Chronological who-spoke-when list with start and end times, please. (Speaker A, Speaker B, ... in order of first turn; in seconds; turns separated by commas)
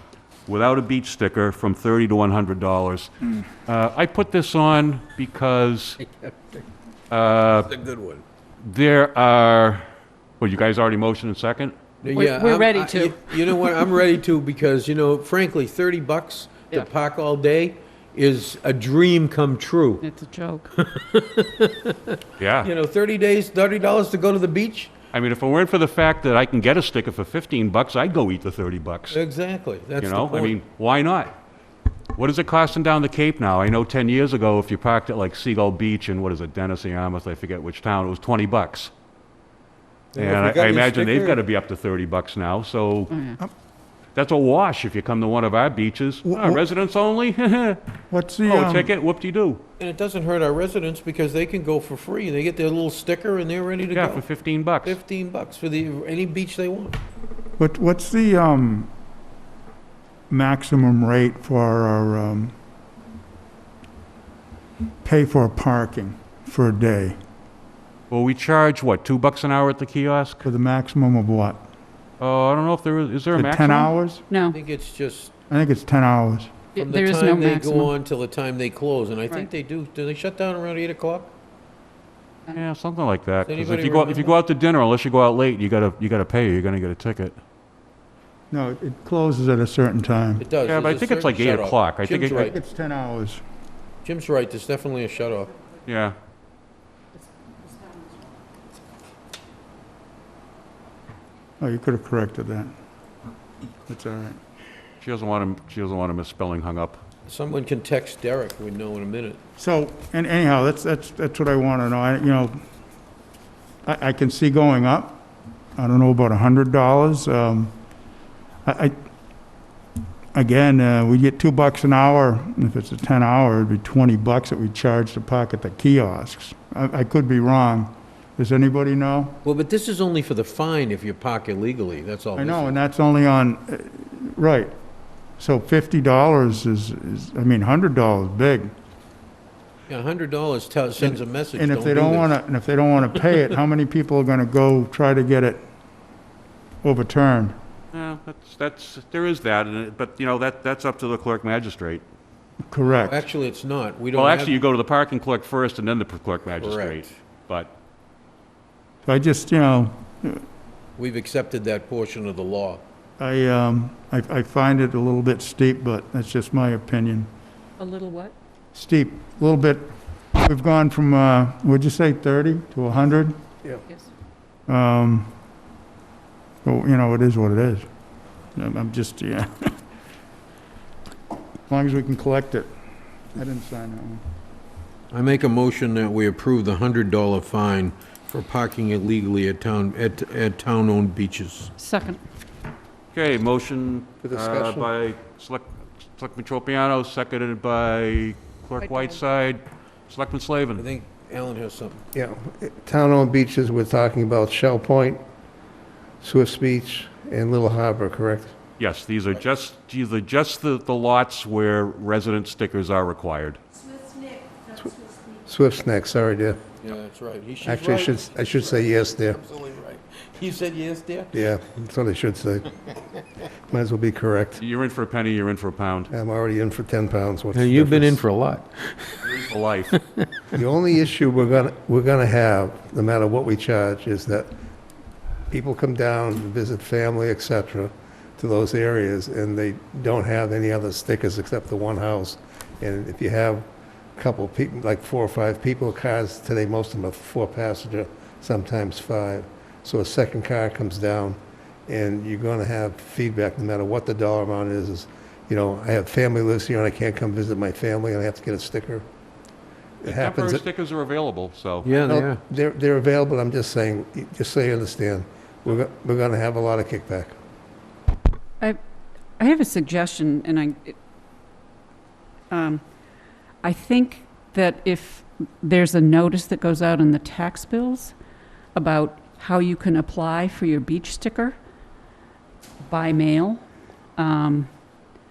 Speaker A: 0.5-3.1, Speaker A: 3.6-6.0, Speaker A: 7.1-7.7, Speaker B: 7.7-8.2, Speaker A: 8.6-9.8, Speaker A: 10.4-11.8, Speaker B: 12.0-20.0, Speaker C: 12.1-13.8, Speaker C: 20.0-20.7, Speaker B: 20.7-24.9, Speaker A: 22.4-22.7, Speaker A: 25.1-29.2, Speaker B: 29.1-30.6, Speaker A: 30.0-31.3, Speaker A: 32.1-38.9, Speaker B: 40.1-41.4, Speaker A: 40.2-43.2, Speaker C: 43.1-43.4, Speaker A: 44.1-47.8, Speaker D: 46.2-46.6, Speaker D: 48.1-48.9, Speaker A: 48.4-49.6, Speaker B: 49.8-54.2, Speaker A: 53.9-55.0, Speaker B: 54.8-57.0, Speaker D: 57.6-58.9, Speaker D: 60.3-62.5, Speaker D: 65.0-67.2, Speaker A: 68.1-70.5, Speaker D: 70.4-71.6, Speaker A: 72.2-73.9, Speaker D: 73.3-74.2, Speaker C: 74.3-74.6, Speaker B: 74.5-75.3, Speaker D: 75.5-76.5, Speaker C: 76.7-77.9, Speaker B: 76.8-81.3, Speaker A: 82.5-87.4, Speaker B: 83.5-84.3, Speaker D: 88.5-90.5, Speaker B: 90.4-92.6, Speaker A: 90.6-92.5, Speaker D: 92.3-93.4, Speaker B: 94.0-95.5, Speaker A: 95.8-96.2, Speaker C: 97.6-98.2, Speaker D: 101.6-102.7, Speaker D: 103.9-104.4, Speaker A: 105.0-107.0, Speaker B: 107.3-109.4, Speaker D: 109.6-112.6, Speaker D: 113.8-115.2, Speaker D: 115.8-117.7, Speaker D: 118.6-118.9, Speaker D: 120.3-129.4, Speaker B: 129.4-132.8, Speaker D: 132.3-134.7, Speaker D: 135.4-138.7, Speaker B: 139.9-142.4, Speaker D: 141.0-145.7, Speaker D: 146.8-147.6, Speaker A: 147.9-152.0, Speaker D: 152.7-153.3, Speaker B: 152.9-154.6, Speaker A: 154.1-157.7, Speaker B: 156.6-157.1, Speaker D: 159.1-160.4, Speaker B: 161.0-162.8, Speaker D: 163.2-167.3, Speaker C: 167.8-168.3, Speaker D: 168.7-173.4, Speaker D: 174.7-175.3, Speaker D: 176.6-177.8, Speaker D: 178.5-179.8, Speaker D: 181.7-182.7, Speaker D: 183.3-184.2, Speaker B: 185.1-191.7, Speaker C: 191.8-192.2, Speaker A: 193.1-200.8, Speaker E: 194.2-194.9, Speaker C: 198.8-199.2, Speaker B: 200.8-202.0, Speaker E: 202.1-205.2, Speaker E: 206.2-208.5, Speaker A: 208.8-213.6, Speaker E: 214.7-216.6, Speaker B: 216.8-221.6, Speaker E: 217.6-219.4, Speaker E: 221.3-222.7, Speaker E: 223.7-224.6, Speaker A: 224.6-226.1, Speaker E: 226.1-228.2, Speaker B: 227.5-229.3, Speaker A: 229.2-230.0, Speaker B: 229.9-230.2, Speaker E: 230.5-234.5, Speaker E: 235.5-259.0, Speaker E: 260.0-260.6, Speaker A: 260.0-261.9, Speaker B: 261.8-262.4, Speaker E: 262.0-267.3, Speaker C: 269.4-271.0, Speaker C: 272.5-272.8, Speaker C: 273.6-278.1, Speaker C: 278.7-281.6, Speaker C: 282.8-283.6, Speaker C: 284.2-284.7